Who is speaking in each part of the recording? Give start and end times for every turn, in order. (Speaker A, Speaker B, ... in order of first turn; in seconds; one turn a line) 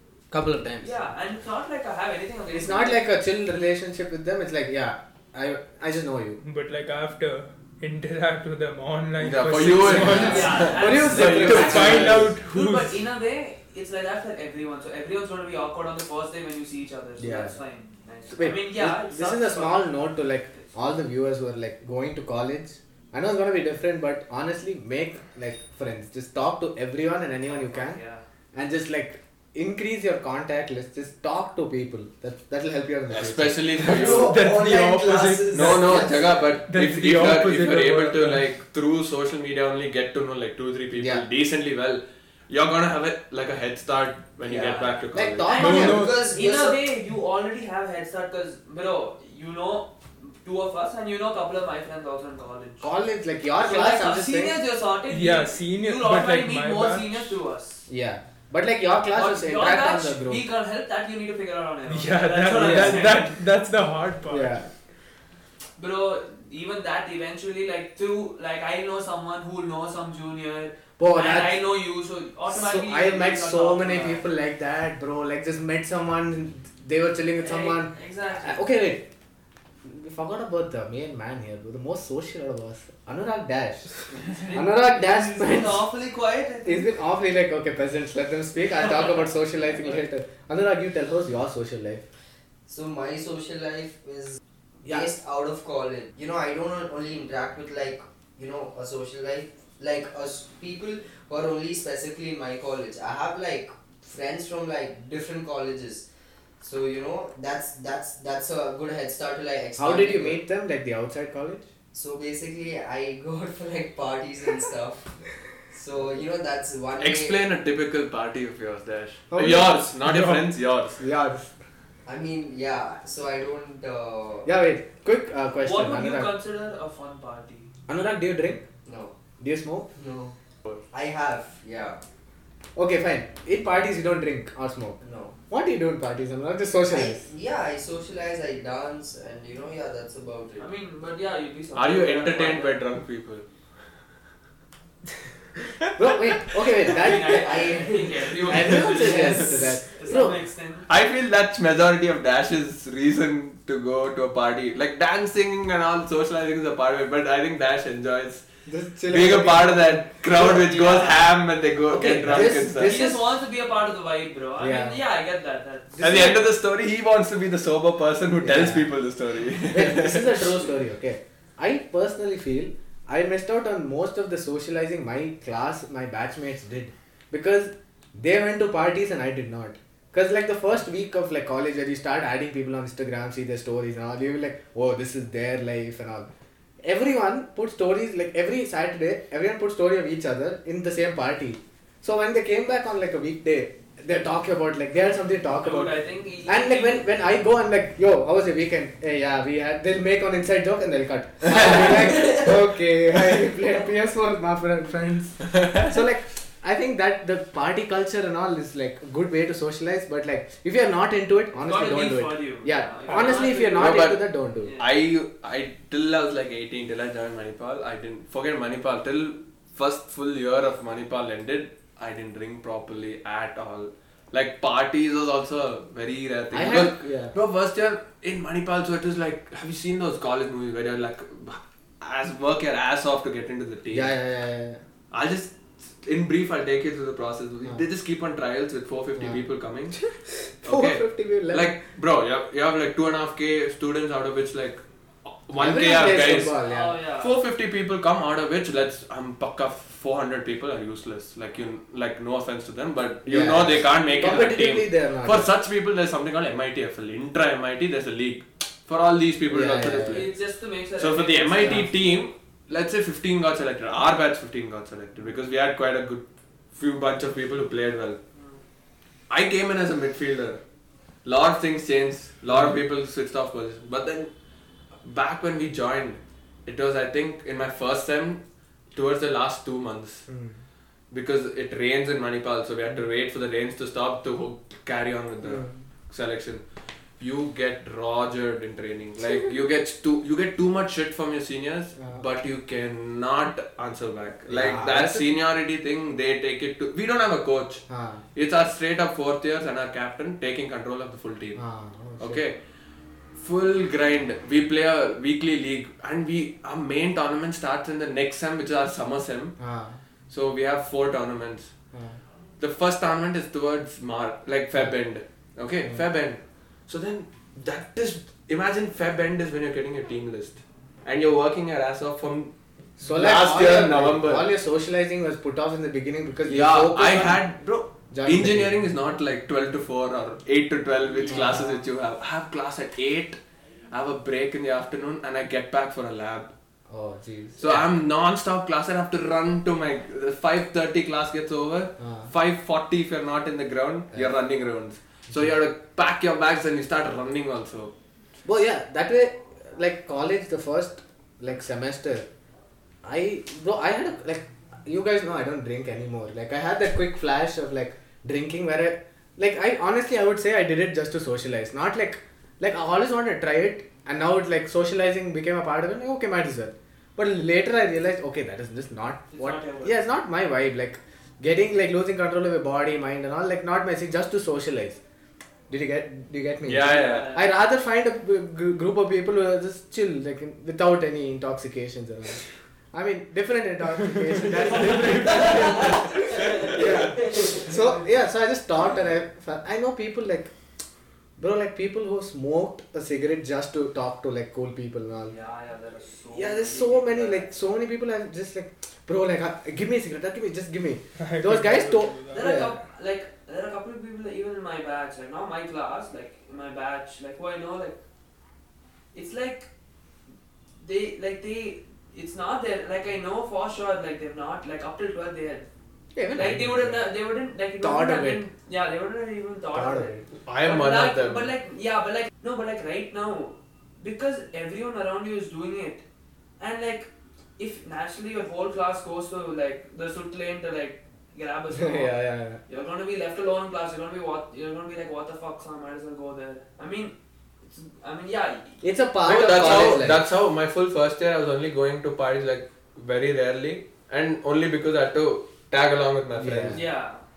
Speaker A: 0.3-0.9
Speaker B: 0.8-3.0
Speaker A: 2.5-6.4
Speaker C: 6.4-13.0
Speaker D: 9.2-12.3
Speaker E: 9.8-10.5
Speaker A: 10.0-12.3
Speaker B: 10.0-19.9
Speaker A: 17.2-17.6
Speaker A: 18.3-28.0
Speaker B: 27.5-28.2
Speaker A: 28.5-33.9
Speaker D: 33.1-34.4
Speaker E: 33.8-36.4
Speaker C: 33.9-36.1
Speaker D: 35.5-45.5
Speaker C: 36.7-38.4
Speaker A: 41.0-41.2
Speaker E: 44.5-44.8
Speaker A: 45.1-46.2
Speaker B: 45.5-52.9
Speaker C: 45.5-46.3
Speaker E: 45.6-46.8
Speaker A: 52.8-54.6
Speaker B: 53.6-57.9
Speaker C: 55.1-57.4
Speaker A: 57.9-60.4
Speaker B: 59.1-63.3
Speaker C: 61.9-64.6
Speaker A: 64.3-64.7
Speaker B: 65.8-74.2
Speaker A: 71.0-71.6
Speaker A: 72.5-79.1
Speaker B: 77.4-78.6
Speaker A: 79.8-85.8
Speaker B: 84.2-86.9
Speaker A: 86.6-92.0
Speaker E: 92.7-106.0
Speaker E: 106.6-110.4
Speaker A: 109.8-111.7
Speaker E: 111.9-115.1
Speaker E: 115.7-117.4
Speaker D: 117.0-121.0
Speaker A: 119.3-119.8
Speaker C: 120.0-120.4
Speaker A: 121.0-121.5
Speaker E: 122.0-124.5
Speaker A: 124.4-126.3
Speaker B: 125.6-127.7
Speaker A: 127.9-128.7
Speaker E: 128.8-129.1
Speaker A: 129.4-129.9
Speaker E: 129.9-130.3
Speaker E: 130.9-132.0
Speaker A: 132.8-137.2
Speaker E: 135.0-135.3
Speaker E: 136.9-140.7
Speaker B: 140.6-142.8
Speaker D: 141.7-143.4
Speaker A: 145.9-147.7
Speaker B: 146.8-150.9
Speaker E: 147.0-149.4
Speaker A: 148.4-150.4
Speaker D: 150.9-158.4
Speaker A: 158.7-160.4
Speaker D: 159.1-163.0
Speaker B: 160.5-161.1
Speaker A: 161.9-163.2
Speaker B: 162.8-166.4
Speaker A: 164.6-165.0
Speaker A: 166.0-166.4
Speaker D: 166.0-170.5
Speaker A: 168.4-168.9
Speaker A: 169.7-186.3
Speaker A: 186.8-214.7
Speaker B: 195.6-197.1
Speaker B: 211.6-214.1
Speaker D: 213.7-214.2
Speaker B: 214.6-214.9
Speaker D: 214.8-234.1
Speaker A: 226.5-227.3
Speaker A: 233.9-234.8
Speaker D: 235.1-240.0
Speaker A: 239.2-239.4
Speaker A: 240.6-241.7
Speaker D: 240.6-246.6
Speaker A: 245.6-246.9
Speaker B: 246.6-247.3
Speaker D: 247.2-260.3
Speaker A: 253.2-255.5
Speaker B: 254.1-254.3
Speaker A: 259.5-260.2
Speaker B: 260.0-261.9
Speaker D: 261.0-268.2
Speaker B: 268.3-268.6
Speaker D: 269.3-270.6
Speaker D: 271.2-274.3
Speaker D: 275.0-278.4
Speaker D: 278.9-280.2
Speaker A: 280.3-280.6
Speaker D: 281.1-286.6
Speaker A: 285.4-285.8
Speaker D: 287.2-301.6
Speaker A: 294.5-295.3
Speaker A: 297.9-298.2
Speaker A: 301.6-302.4
Speaker D: 302.2-302.6
Speaker D: 303.4-309.5
Speaker A: 309.6-310.0
Speaker D: 310.3-311.7
Speaker A: 311.9-312.2
Speaker D: 312.6-324.5
Speaker A: 323.0-327.4
Speaker D: 326.5-333.4
Speaker A: 328.1-328.7
Speaker A: 331.2-331.8
Speaker D: 333.9-336.5
Speaker A: 336.9-337.9
Speaker D: 337.6-347.9
Speaker A: 342.0-342.3
Speaker A: 348.4-352.3
Speaker A: 353.0-375.0
Speaker B: 369.3-370.0
Speaker A: 375.7-390.5
Speaker D: 376.6-377.3
Speaker B: 376.8-377.5
Speaker D: 384.9-385.9
Speaker B: 385.4-387.7
Speaker D: 386.5-387.0
Speaker A: 391.4-395.4
Speaker B: 395.3-397.5
Speaker A: 396.3-402.7
Speaker C: 401.2-402.6
Speaker B: 402.3-408.0
Speaker B: 409.1-409.7
Speaker B: 410.8-415.7
Speaker A: 416.1-417.0
Speaker B: 416.3-426.0
Speaker A: 417.8-418.4
Speaker A: 419.7-420.2
Speaker D: 420.4-421.5
Speaker B: 426.6-437.1
Speaker A: 431.7-432.6
Speaker B: 437.6-438.8
Speaker A: 438.8-440.2
Speaker D: 439.2-446.8
Speaker A: 446.4-446.8
Speaker B: 446.7-447.2